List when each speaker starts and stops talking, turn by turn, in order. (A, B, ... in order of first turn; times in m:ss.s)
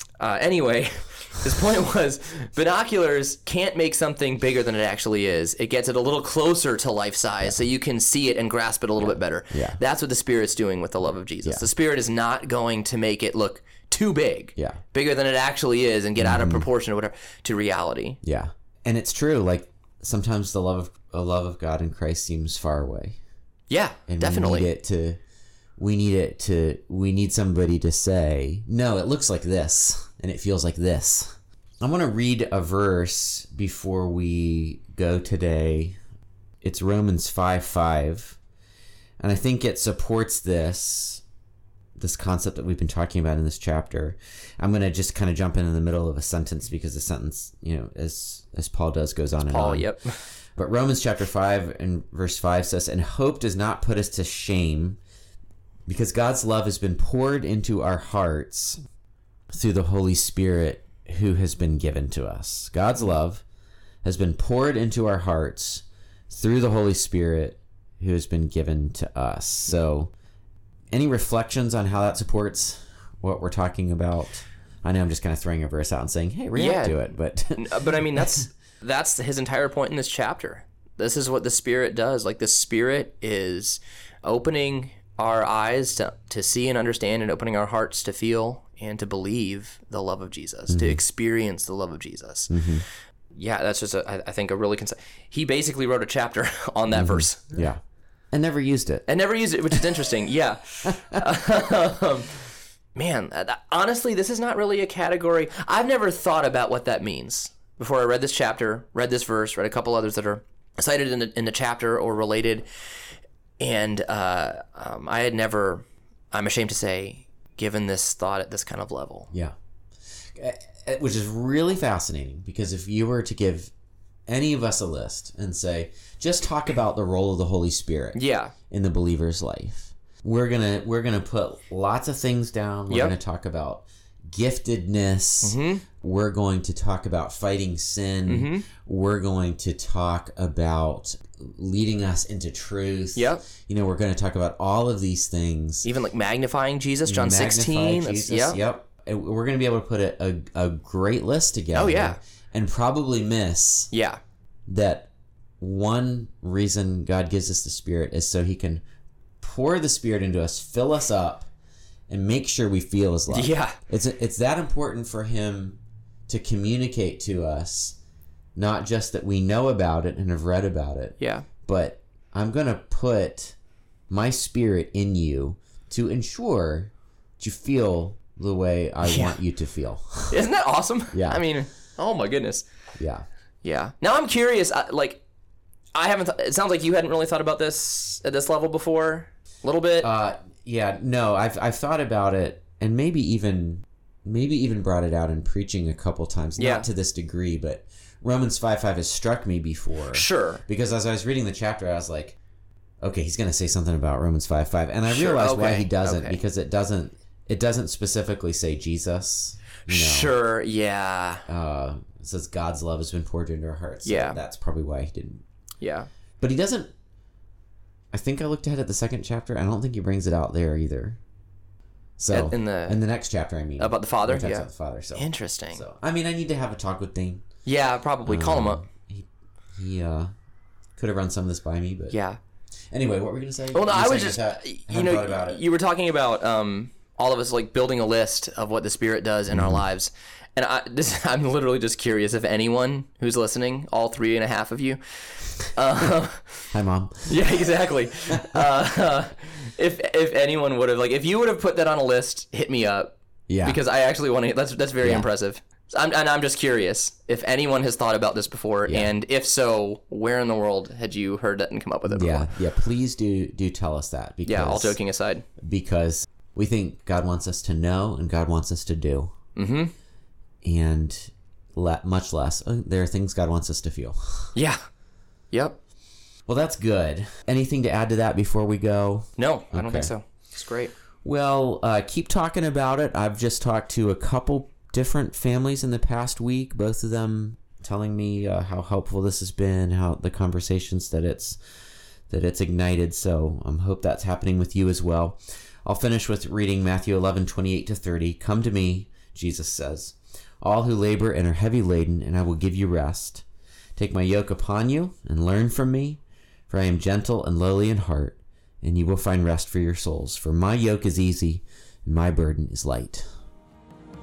0:00.2-0:18.2 A
0:09.0-0:09.8 B
0:16.2-0:16.7 B
0:18.2-0:23.2 B
0:23.7-0:24.7 A
0:24.1-0:25.2 B
0:25.8-0:36.0 B
0:36.6-0:38.4 B
0:39.2-0:41.2 B
0:42.0-0:49.9 B
0:49.4-0:50.2 A
0:50.6-0:55.0 B
0:55.9-0:58.8 B
0:59.5-1:03.4 B
1:04.0-1:10.1 B
1:10.9-1:18.4 B
1:16.6-1:32.6 A
1:30.7-1:31.0 B
1:32.5-1:32.8 B
1:33.4-1:37.6 A
1:36.9-1:37.8 B
1:38.3-1:39.1 B
1:39.1-1:42.4 A
1:40.9-1:41.3 B
1:43.0-1:52.6 A
1:53.6-1:59.3 A
2:00.4-2:03.7 B
2:04.3-2:25.9 B
2:08.2-2:08.5 A
2:12.9-2:13.2 A
2:15.4-2:15.8 A
2:18.3-2:18.7 A
2:23.2-2:23.4 A
2:25.8-2:28.6 A
2:27.1-2:33.9 B
2:31.7-2:32.2 A
2:33.9-2:34.2 A
2:34.7-2:38.8 B
2:39.4-2:41.5 B
2:42.1-2:48.0 B
2:43.3-2:43.8 A
2:48.6-2:53.6 B
2:51.2-2:51.5 A
2:54.1-3:00.4 B
2:59.0-2:59.4 A
3:00.3-3:02.7 A
3:01.1-3:01.4 B
3:03.0-3:03.2 B
3:03.6-3:05.2 A
3:06.0-3:10.1 A
3:10.0-3:22.4 B
3:16.6-3:16.9 A
3:20.1-3:20.6 A
3:23.0-3:30.4 B
3:25.1-3:26.4 A
3:29.9-3:31.5 A
3:31.5-3:35.4 B
3:34.0-3:34.4 A
3:35.8-3:36.1 A
3:36.4-3:36.9 B
3:38.1-3:41.2 B
3:42.2-3:47.4 B
3:42.3-3:43.0 A
3:43.8-3:45.8 A
3:47.6-3:48.8 A
3:48.2-3:50.3 B
3:51.0-3:52.2 B
3:52.1-3:52.4 A
3:52.9-3:55.6 B
3:53.7-4:06.7 A
3:59.5-3:59.9 B
4:06.7-4:07.6 B
4:07.3-4:13.1 A
4:13.5-4:13.8 B
4:13.6-4:22.6 A
4:15.0-4:15.3 B
4:18.9-4:19.1 B
4:22.1-4:25.0 B
4:24.5-4:25.5 A
4:25.6-4:29.3 B
4:29.6-4:29.9 A
4:30.6-4:34.5 B
4:35.5-4:35.8 A
4:36.5-4:40.1 B
4:39.4-4:40.9 A
4:41.2-4:51.6 B
4:52.3-5:03.4 B
5:04.0-5:13.3 B